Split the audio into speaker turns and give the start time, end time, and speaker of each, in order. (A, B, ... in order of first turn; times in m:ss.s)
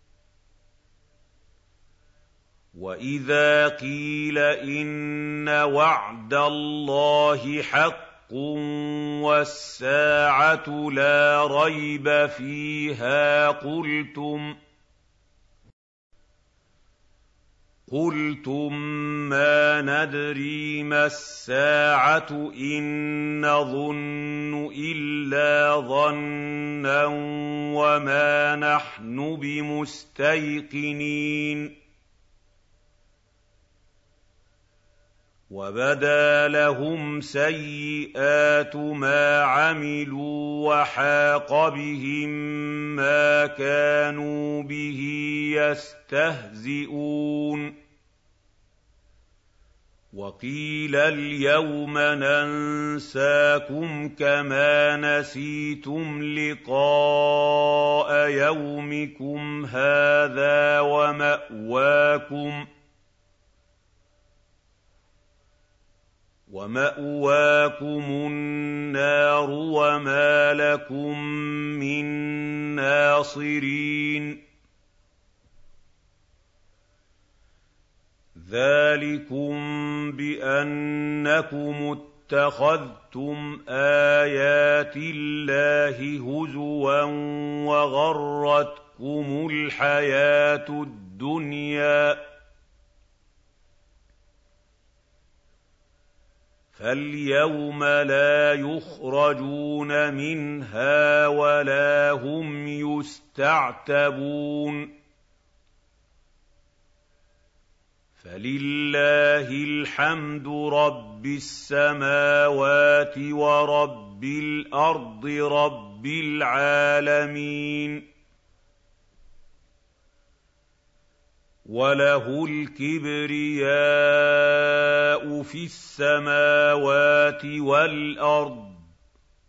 0:02.7-0:14.6 A
0:17.9-0:31.8 A
0:35.5-0:47.8 A
0:50.1-1:02.7 A
1:06.5-1:14.4 A
1:18.3-1:32.3 A
1:36.7-1:44.9 A
1:48.2-1:58.1 A
2:01.6-2:08.8 A